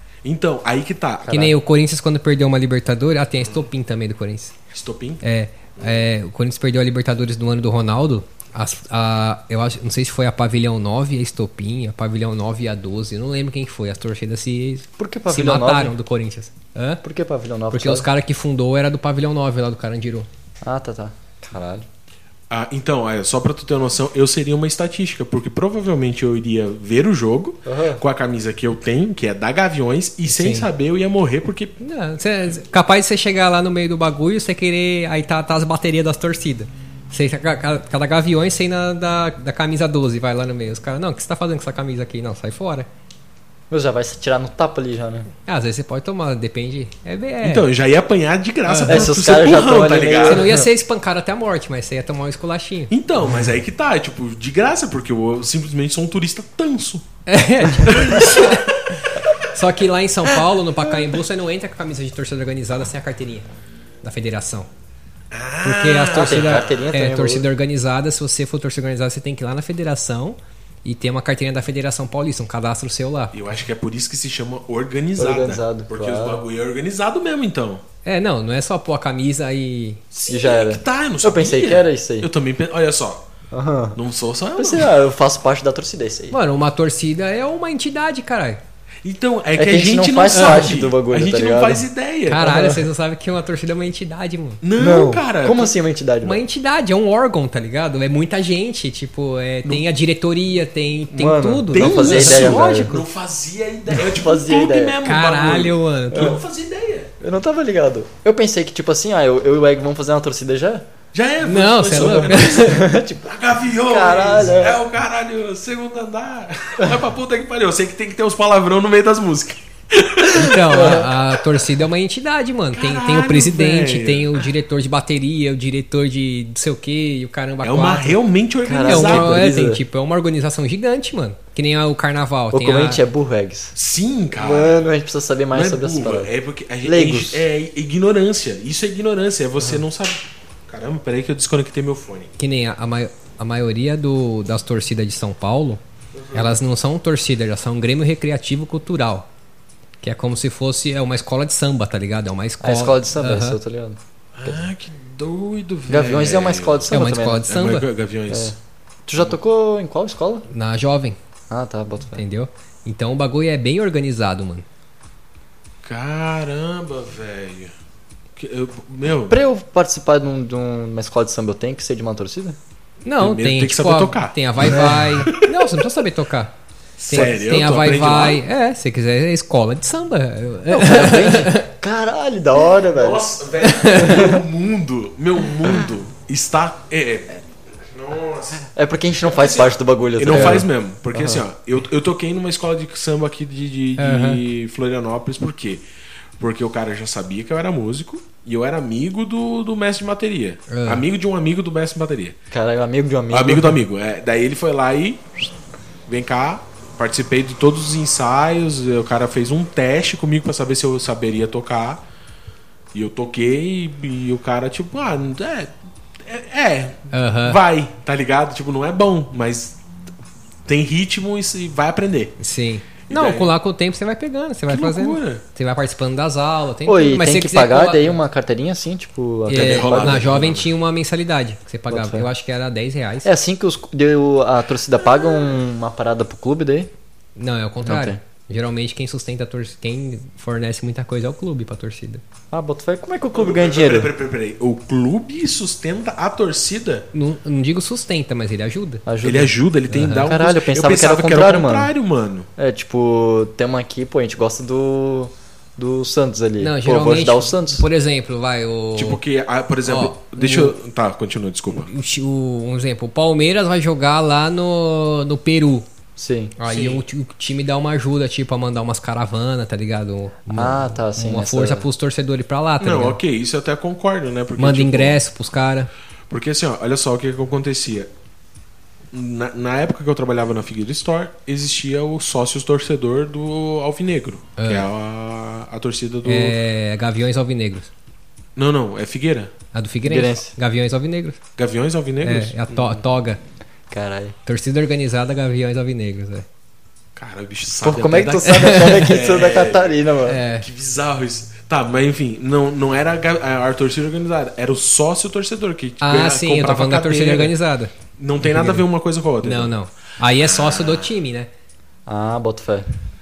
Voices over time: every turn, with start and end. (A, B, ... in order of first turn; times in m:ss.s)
0:00.2-0:01.4 A
0:01.2-0:01.6 B
0:01.3-0:04.5 C
0:04.7-0:05.2 A
0:05.2-0:17.0 C
0:05.8-0:06.1 A
0:15.0-0:16.0 B
0:17.0-0:18.1 B
0:17.7-0:20.3 C
0:20.6-0:21.9 B
0:22.5-0:31.8 A
0:27.7-0:28.0 B
0:30.3-0:30.7 C
0:31.8-0:42.9 C
0:43.7-0:45.3 B
0:45.5-0:47.7 C
0:47.4-0:50.5 A
0:48.7-0:49.1 C
0:48.9-0:50.7 B
0:50.2-0:52.9 C
0:52.9-0:57.1 A
0:57.3-1:03.5 C
0:57.8-0:58.8 A
1:04.0-1:04.7 C
1:05.3-1:06.8 A
1:05.6-1:13.4 C
1:06.1-1:07.5 B
1:13.3-1:17.8 A
1:15.2-1:16.4 B
1:18.0-1:20.0 C
1:20.1-1:23.2 A
1:20.3-1:22.3 B
1:23.5-1:24.0 B
1:24.0-1:25.0 A
1:24.6-1:26.4 B
1:26.3-1:28.6 C
1:29.0-1:32.5 A
1:29.6-1:32.9 B
1:30.3-1:30.7 C
1:32.3-1:34.6 C
1:34.6-1:35.7 A
1:34.8-1:36.4 B
1:36.2-1:43.0 C
1:41.1-1:43.0 B
1:41.7-1:47.1 A
1:43.9-1:45.0 B
1:45.0-1:46.4 C
1:46.1-1:46.4 B
1:47.2-1:50.9 B
1:51.1-2:01.2 A
1:51.4-1:52.9 C
1:51.9-1:54.8 B
2:00.3-2:08.2 C
2:00.4-2:01.1 B
2:02.7-2:04.5 A
2:07.6-2:09.4 A
2:08.6-2:09.8 B
2:08.8-2:13.0 C
2:12.5-2:13.7 B
2:13.8-2:14.9 A
2:14.4-2:16.3 B
2:15.5-2:22.3 A
2:16.8-2:17.5 B
2:22.4-2:25.8 C
2:26.2-2:26.6 A
2:26.3-2:29.3 C
2:30.0-2:33.6 C
2:32.6-2:34.6 B
2:34.4-2:36.9 A
2:35.9-2:37.5 B
2:36.9-2:37.9 C
2:37.5-2:38.5 A
2:38.3-2:38.6 B
2:39.1-2:40.5 B
2:40.5-2:41.2 C
2:41.5-2:42.2 B
2:42.1-2:44.7 C
2:45.8-2:47.7 A
2:48.4-2:49.4 A
2:49.3-2:52.6 B
2:53.0-2:56.5 C
2:53.2-2:55.9 A
2:54.6-2:55.2 B
2:57.0-2:58.4 A
2:57.1-3:01.7 C
3:00.7-3:03.3 B
3:02.9-3:08.7 A
3:03.6-3:04.3 C
3:04.0-3:04.4 B
3:08.8-3:11.4 B
3:09.2-3:15.8 A
3:14.0-3:14.4 C
3:16.4-3:22.4 A
3:20.7-3:21.0 C
3:22.5-3:23.8 B
3:23.3-3:25.3 A
3:26.1-3:32.0 A
3:32.9-3:35.7 A
3:36.2-3:39.8 A
3:37.1-3:37.6 C
3:40.7-3:42.4 A
3:42.4-3:48.2 C
3:43.1-3:43.5 A
3:44.7-3:45.4 A
3:46.9-3:50.4 B
3:49.5-3:53.3 C
3:49.5-3:50.7 A
3:51.9-3:52.3 B
3:53.2-3:56.9 B
3:55.0-3:55.5 A
3:57.4-4:02.2 C
3:57.8-3:58.2 B
4:02.5-4:04.1 B
4:03.3-4:07.1 A
4:07.1-4:09.0 C
4:09.1-4:09.5 B
4:09.2-4:12.5 A
4:09.9-4:10.3 C
4:10.2-4:11.9 B
4:12.6-4:17.8 B
4:16.6-4:19.2 C
4:19.0-4:21.9 A
4:19.9-4:20.8 C
4:21.8-4:25.9 C
4:26.2-4:26.6 B
4:26.6-4:33.2 C
4:26.7-4:27.0 A
4:30.5-4:31.9 B
4:32.8-4:35.2 A
4:34.6-4:35.9 C
4:36.3-4:38.1 A
4:39.1-4:46.6 A
4:44.6-4:44.9 C
4:46.2-4:47.9 C
4:48.6-4:49.5 A
4:49.7-4:51.4 C
4:50.0-4:50.5 B
4:51.6-4:53.0 A
4:52.2-4:53.4 C
4:53.9-4:54.4 B
4:54.5-4:56.5 C
4:57.2-5:07.6 A
4:57.8-5:00.4 B
4:58.5-4:59.1 C
5:00.2-5:00.7 C
5:06.0-5:08.9 C
5:08.2-5:09.7 A
5:09.4-5:11.5 C
5:10.4-5:11.1 A
5:12.1-5:12.9 B